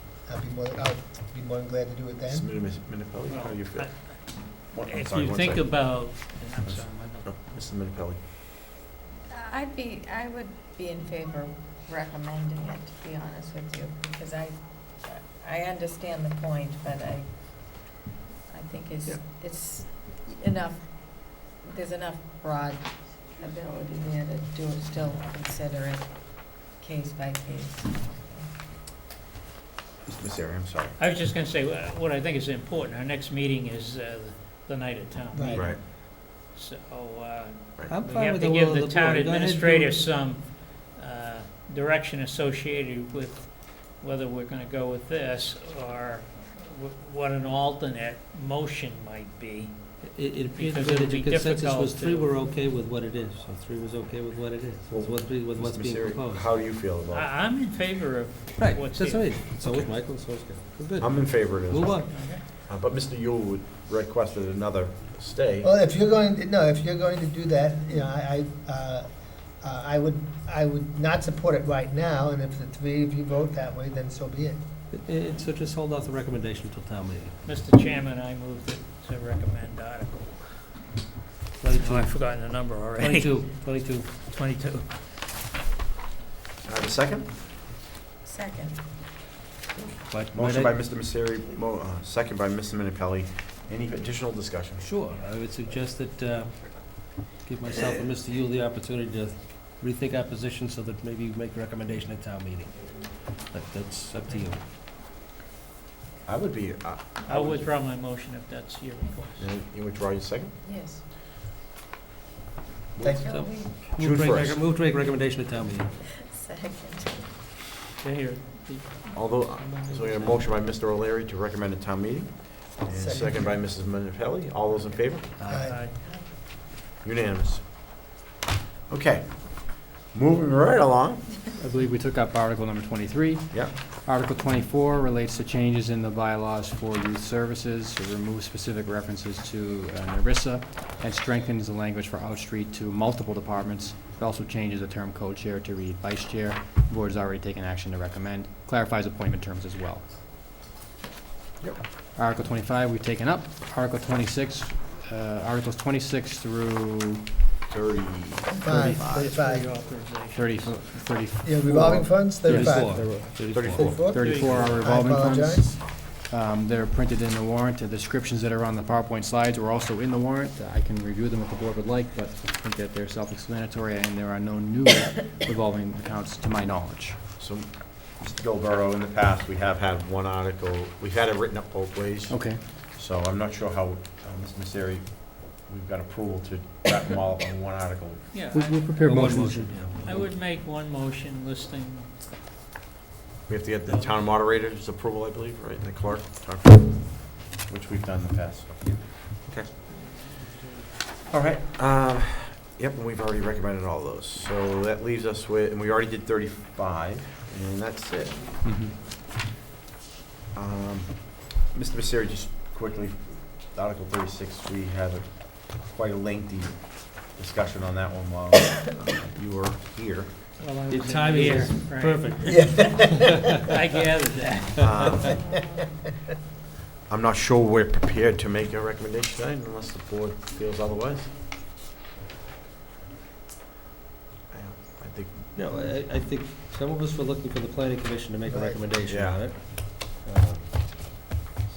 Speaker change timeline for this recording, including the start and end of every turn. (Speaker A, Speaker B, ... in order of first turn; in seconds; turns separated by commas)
Speaker A: 0.2-2.5, Speaker B: 2.3-3.9, Speaker C: 3.3-7.3, Speaker B: 4.7-5.9, Speaker B: 6.6-8.2, Speaker D: 9.3-18.0, Speaker D: 18.5-28.5, Speaker B: 30.1-31.0, Speaker C: 31.0-49.8, Speaker A: 35.3-35.7, Speaker B: 35.6-35.8, Speaker E: 37.9-40.0, Speaker E: 50.0-56.5, Speaker C: 50.5-52.4, Speaker B: 54.9-57.3, Speaker C: 57.1-59.4, Speaker E: 58.6-62.1, Speaker B: 61.0-65.7, Speaker C: 62.0-62.4, Speaker A: 65.6-69.1, Speaker A: 69.6-74.6, Speaker E: 74.9-77.4, Speaker C: 77.4-80.7, Speaker E: 81.6-82.3, Speaker C: 81.7-83.5, Speaker E: 83.0-84.3, Speaker C: 84.2-85.0, Speaker B: 86.6-87.4, Speaker D: 88.2-88.8, Speaker B: 89.8-94.9, Speaker E: 90.1-90.7, Speaker E: 94.8-104.6, Speaker B: 106.3-107.7, Speaker C: 107.2-109.5, Speaker B: 109.4-110.5, Speaker D: 110.6-111.0, Speaker B: 113.0-113.3, Speaker A: 113.0-113.3, Speaker D: 113.2-113.8, Speaker E: 113.2-115.9, Speaker B: 113.8-114.6, Speaker D: 116.0-117.3, Speaker C: 118.0-120.2, Speaker B: 119.2-125.3, Speaker A: 122.9-123.6, Speaker E: 125.3-125.8, Speaker A: 125.5-125.8, Speaker C: 125.6-126.0, Speaker D: 125.9-126.2, Speaker B: 127.0-127.7, Speaker B: 128.9-131.4, Speaker F: 131.6-150.1, Speaker B: 133.5-133.8, Speaker F: 152.2-157.4, Speaker B: 157.7-159.3, Speaker A: 158.6-159.7, Speaker C: 158.8-160.8, Speaker F: 160.3-177.2, Speaker A: 161.4-165.8, Speaker E: 162.4-164.1, Speaker B: 163.5-164.8, Speaker C: 164.1-164.8, Speaker B: 177.4-188.3, Speaker F: 182.3-182.6, Speaker C: 188.3-189.2, Speaker F: 188.5-189.9, Speaker E: 189.0-190.3, Speaker C: 190.0-192.2, Speaker B: 193.5-199.7, Speaker C: 193.8-194.3, Speaker B: 201.2-208.4, Speaker F: 208.6-208.9, Speaker B: 210.5-220.3, Speaker C: 220.6-222.7, Speaker E: 220.9-223.4, Speaker A: 222.5-223.5, Speaker C: 223.7-224.8, Speaker B: 224.8-225.4, Speaker D: 225.4-225.6, Speaker B: 227.1-231.3, Speaker B: 234.5-235.5, Speaker E: 235.6-241.2, Speaker A: 238.5-238.8, Speaker B: 239.1-239.4